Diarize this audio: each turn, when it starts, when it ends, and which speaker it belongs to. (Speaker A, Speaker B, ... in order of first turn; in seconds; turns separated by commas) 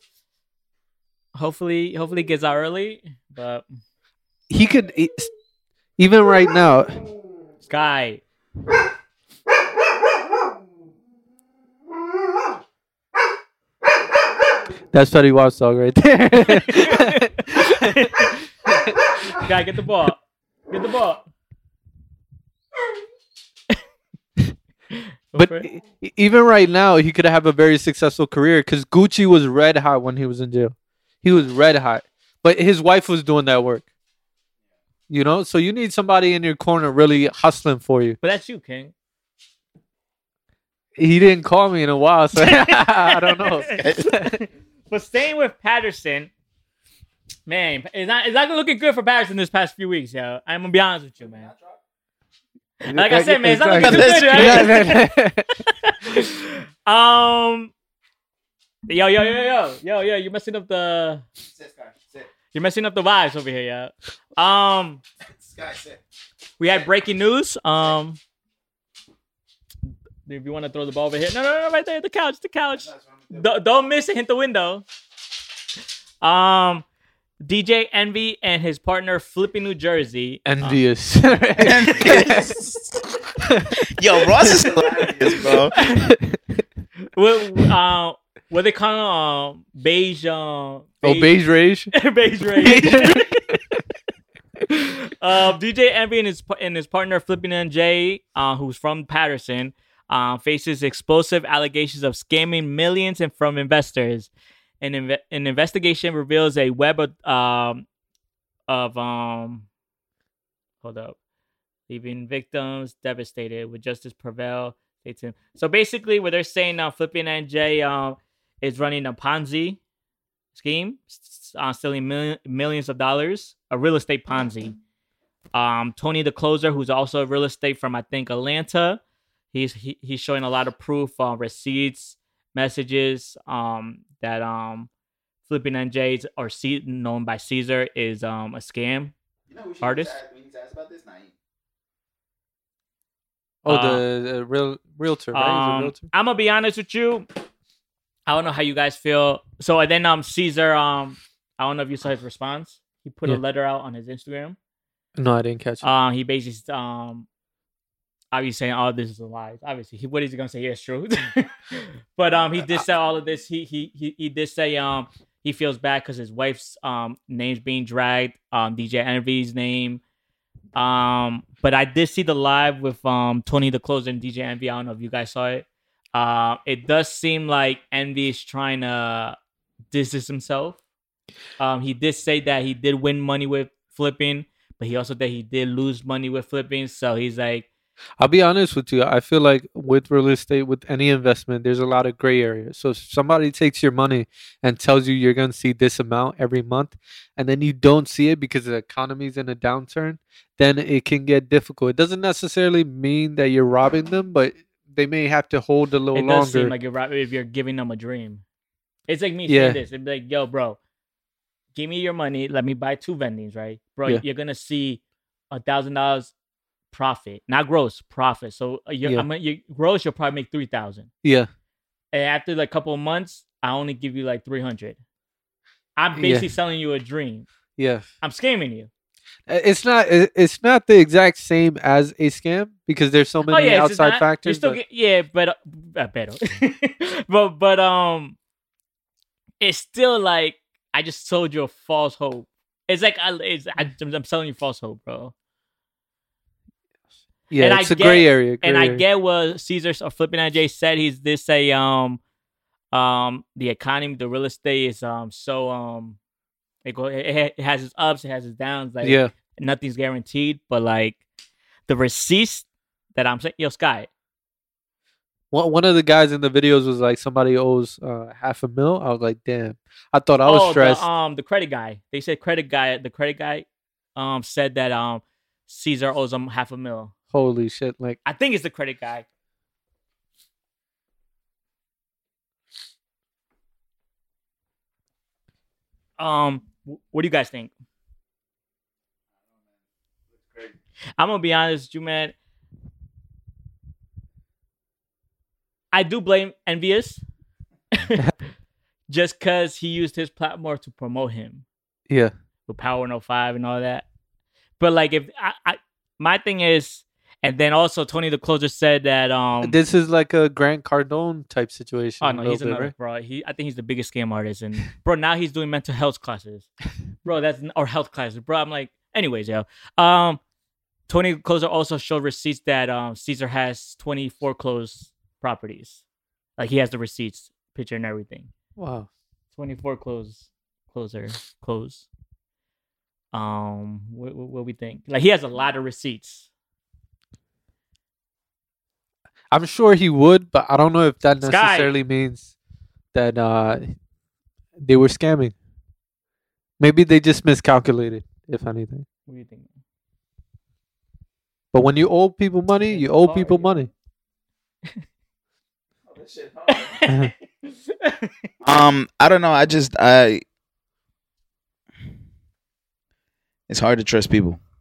Speaker A: 1.4-3.7, Speaker B: 4.5-5.3, Speaker B: 6.0-7.0, Speaker A: 7.6-8.2, Speaker B: 14.9-18.1, Speaker A: 16.4-18.4, Speaker B: 18.7-19.4, Speaker A: 19.4-21.2, Speaker A: 24.9-25.7, Speaker B: 25.4-33.9, Speaker B: 35.1-38.2, Speaker A: 38.2-38.9, Speaker B: 41.0-44.4, Speaker A: 42.4-46.3, Speaker C: 43.7-44.1, Speaker A: 47.5-51.5, Speaker C: 51.2-51.8, Speaker A: 52.8-57.7, Speaker B: 52.9-55.6, Speaker C: 53.8-54.9, Speaker A: 58.9-61.2, Speaker C: 61.4-62.3, Speaker A: 62.5-65.0, Speaker C: 65.3-66.0, Speaker A: 66.6-68.2, Speaker A: 70.3-74.8, Speaker C: 72.8-73.5, Speaker A: 76.2-76.9, Speaker A: 77.4-80.8, Speaker B: 80.5-82.5, Speaker C: 81.6-83.1, Speaker C: 83.9-85.8, Speaker B: 84.4-86.6, Speaker A: 87.1-91.3, Speaker B: 91.0-91.9, Speaker A: 91.9-93.4, Speaker B: 92.6-93.6, Speaker A: 94.7-104.3, Speaker A: 104.8-107.9, Speaker A: 108.7-109.7, Speaker A: 110.8-111.2, Speaker A: 111.9-119.8, Speaker A: 120.5-124.8, Speaker A: 125.5-129.0, Speaker A: 129.5-134.9, Speaker A: 135.5-139.1, Speaker C: 139.5-141.3, Speaker A: 139.8-140.2, Speaker B: 143.6-146.0, Speaker A: 143.7-144.0, Speaker A: 145.3-147.3, Speaker A: 148.3-154.6, Speaker B: 155.2-155.8, Speaker A: 155.8-157.3, Speaker A: 158.3-170.0, Speaker A: 170.8-179.4, Speaker A: 179.9-180.8, Speaker A: 181.6-187.7, Speaker B: 188.2-206.7, Speaker A: 206.1-208.4, Speaker A: 209.1-210.8, Speaker B: 209.5-209.8, Speaker A: 211.7-216.3, Speaker A: 216.9-221.1, Speaker A: 222.1-225.0, Speaker A: 226.0-227.5, Speaker B: 226.2-226.5, Speaker B: 227.8-228.1, Speaker A: 228.2-228.9, Speaker B: 229.5-234.8, Speaker A: 233.5-238.4, Speaker A: 239.6-245.3, Speaker B: 247.5-249.0, Speaker A: 247.6-252.2, Speaker A: 252.9-256.2, Speaker A: 256.9-261.2, Speaker B: 259.0-259.3, Speaker A: 261.9-264.1, Speaker B: 265.5-271.1, Speaker A: 270.4-277.1, Speaker B: 277.3-278.2, Speaker A: 278.2-279.3, Speaker A: 286.2-287.7, Speaker C: 289.4-289.8, Speaker C: 290.3-290.8, Speaker A: 291.2-292.4, Speaker A: 295.9-297.2, Speaker A: 297.9-298.3, Speaker A: 299.1-301.6, Speaker A: 302.7-304.1, Speaker A: 304.8-309.8, Speaker B: 309.6-312.9, Speaker A: 312.2-316.7, Speaker A: 317.2-320.4, Speaker A: 321.1-326.0, Speaker A: 326.6-328.5, Speaker B: 328.8-329.1, Speaker A: 329.6-332.1, Speaker A: 333.3-336.5, Speaker B: 339.5-342.5, Speaker A: 341.4-341.9, Speaker B: 343.1-343.9, Speaker B: 344.8-345.6, Speaker B: 346.8-349.1, Speaker A: 349.3-349.7, Speaker B: 351.7-353.9, Speaker A: 352.8-353.9, Speaker C: 356.1-357.0, Speaker A: 356.7-358.3, Speaker C: 358.6-360.4, Speaker C: 363.7-364.6